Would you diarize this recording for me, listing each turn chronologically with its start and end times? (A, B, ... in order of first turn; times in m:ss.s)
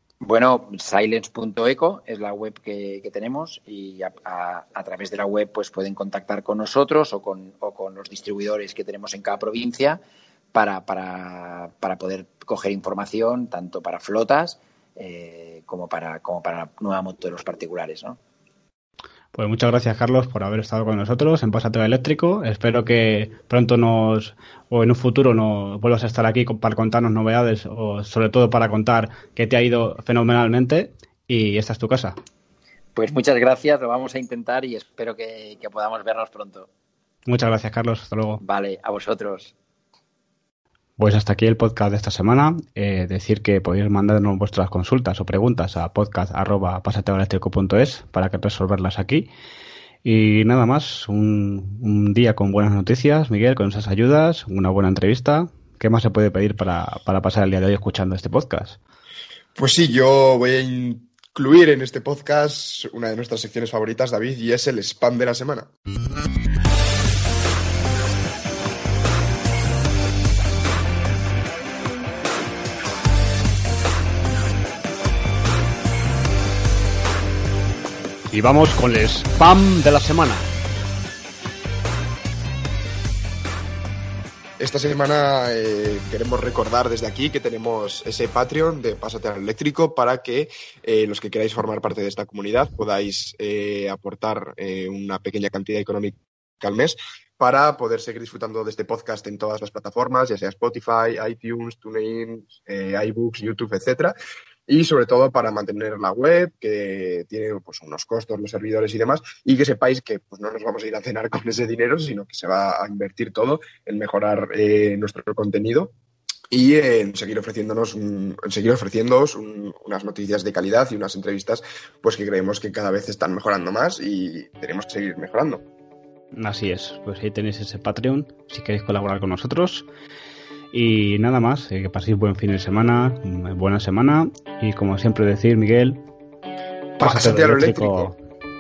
0:00.2-0:10.0 A
0:10.5-0:18.2 A
0:19.3-0:32.2 B
0:33.0-0:36.7 A
0:37.3-0:38.4 B
0:38.4-0:39.5 A
0:41.0-0:49.3 B
0:50.0-0:58.8 B
0:59.6-1:05.7 C
1:18.3-1:20.5 B
1:24.6-1:44.1 C
1:44.7-1:55.9 C
1:56.5-2:05.6 C
2:06.3-2:09.9 B
2:10.7-2:16.0 B
2:17.0-2:18.1 C
2:17.0-2:18.2 B